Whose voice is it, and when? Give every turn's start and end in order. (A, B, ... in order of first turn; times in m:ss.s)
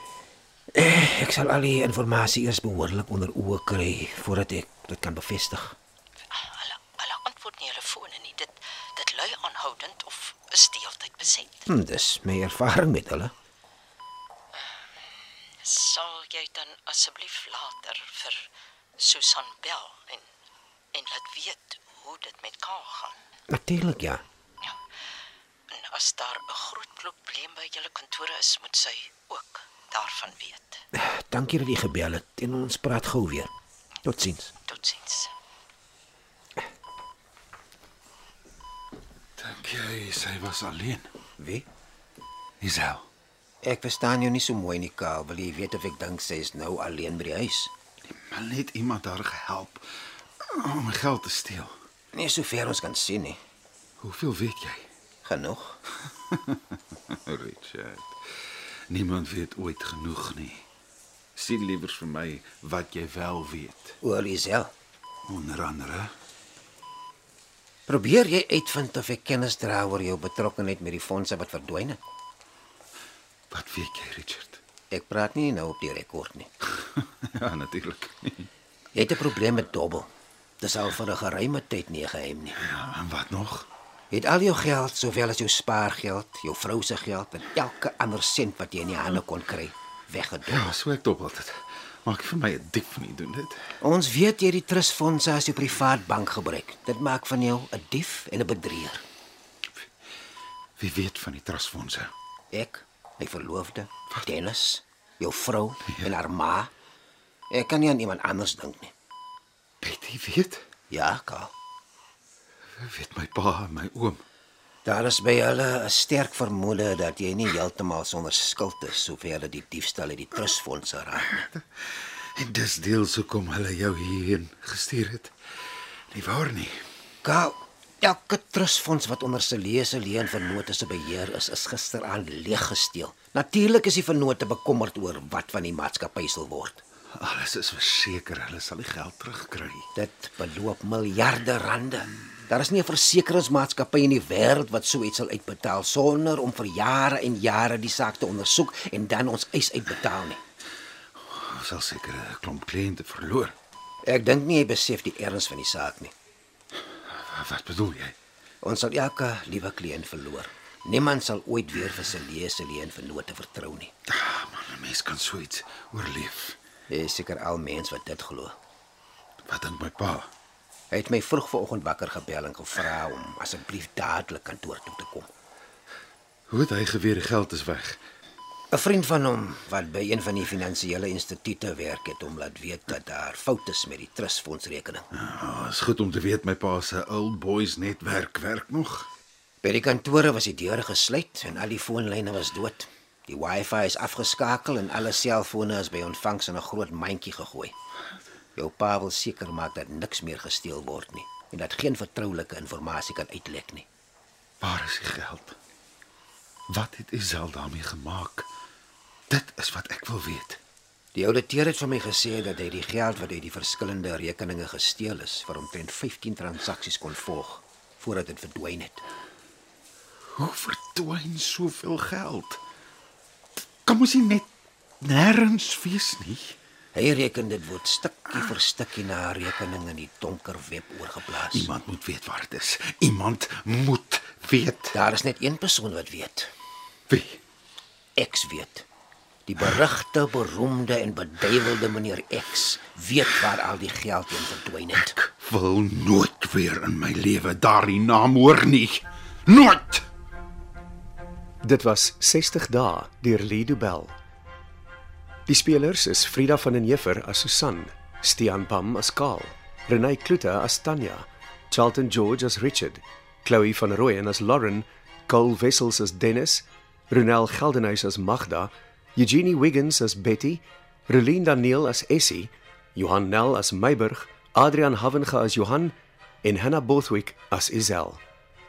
0:00.8-0:05.8 A
0:06.3-0:11.7 B
0:11.7-0:13.3 A
0:15.6-0:20.2 B
0:20.9-0:23.2 B
0:23.5-0:24.2 A
0:25.7-0:30.8 B
0:30.9-0:33.5 A
0:34.0-0:34.5 A
0:34.7-0:35.3 B
0:39.4-0:41.1 C
0:41.4-0:41.7 A
0:42.6-0:43.1 C
0:43.6-0:47.7 A
0:48.1-0:49.8 C
0:50.4-0:51.8 C
0:52.1-0:53.4 A
0:54.0-0:54.9 C
0:55.2-0:55.8 A
0:56.1-0:58.2 C
0:58.9-1:00.7 C
1:01.4-1:04.0 C
1:04.0-1:04.7 A
1:05.2-1:06.1 C
1:07.9-1:12.0 A
1:13.5-1:14.6 C
1:14.9-1:16.5 A
1:17.0-1:18.5 C
1:19.0-1:20.1 A
1:20.6-1:22.6 A
1:22.6-1:23.7 C
1:24.1-1:30.8 A
1:30.5-1:33.7 C
1:33.8-1:39.0 A
1:40.8-1:42.1 C
1:42.5-1:46.7 A
1:47.5-1:48.9 A
1:49.8-1:50.6 C
1:50.9-1:51.5 A
1:52.8-1:54.2 C
1:54.8-2:01.3 A
2:01.4-2:05.3 C
2:06.1-2:06.8 C
2:07.2-2:16.8 A
2:17.2-2:19.9 C
2:20.0-2:30.4 A
2:31.2-2:33.6 C
2:34.0-2:36.1 A
2:36.9-2:38.2 C
2:38.6-2:43.9 A
2:44.1-2:46.6 C
2:46.9-2:48.5 A
2:49.5-2:50.3 C
2:50.9-2:55.3 A
2:56.5-2:58.0 C
2:58.7-3:05.1 A
3:05.2-3:09.1 C
3:09.6-3:17.7 A
3:18.6-3:23.9 A
3:24.6-3:25.6 C
3:26.7-3:28.5 C
3:29.3-3:30.6 C
3:31.2-3:39.0 A
3:40.4-3:42.6 C
3:43.9-3:44.5 C
3:45.0-3:46.6 C
3:47.0-3:51.7 A
3:51.5-3:55.0 C
3:54.9-3:56.5 A
3:57.1-3:57.4 C
3:58.2-3:58.9 A
3:59.5-4:05.2 A
4:05.2-4:10.0 C
4:11.6-4:14.1 D
4:15.5-4:38.2 D